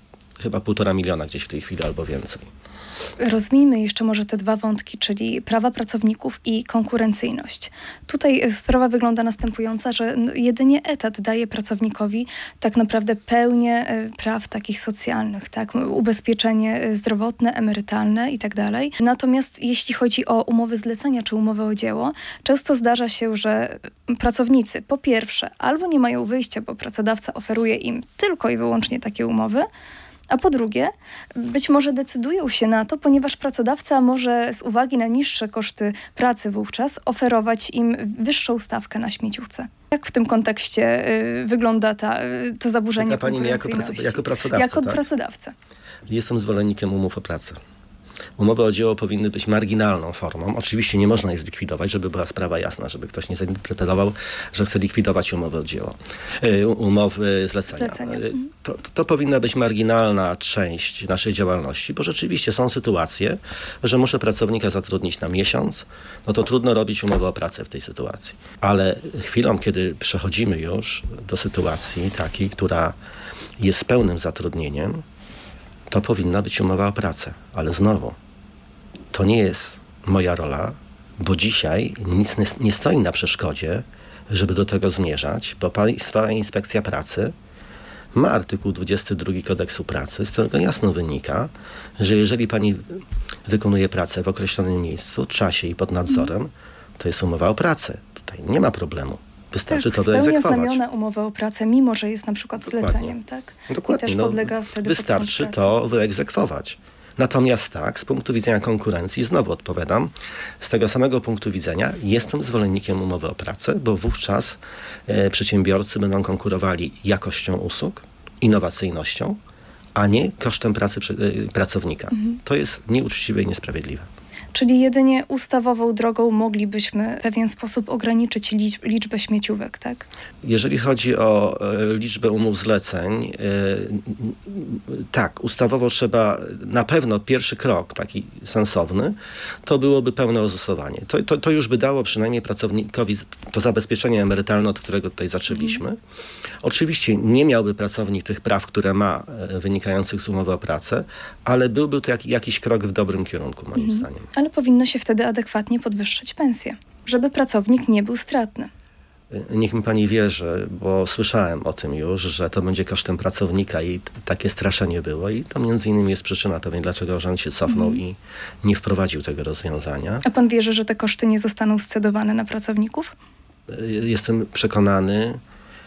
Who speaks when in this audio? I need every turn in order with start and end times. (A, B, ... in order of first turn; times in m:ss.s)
0:00.4-0:02.5 A
0:03.2-0:29.7 B
0:30.3-0:45.5 B
0:43.0-0:45.1 A
0:46.0-0:47.6 A
0:48.4-1:13.0 A
0:57.7-0:58.5 B
1:13.6-1:15.0 A
1:15.9-1:18.2 A
1:19.1-1:27.3 A
1:28.1-1:40.8 A
1:39.7-1:45.7 B
1:42.7-1:43.1 A
1:43.7-1:59.4 A
1:59.9-2:04.1 A
2:04.5-2:10.0 B
2:10.4-2:26.0 A
2:26.6-2:34.3 A
2:33.8-2:38.7 B
2:39.3-2:50.2 A
2:47.7-2:48.0 B
2:50.2-2:53.1 B
2:53.7-2:55.4 A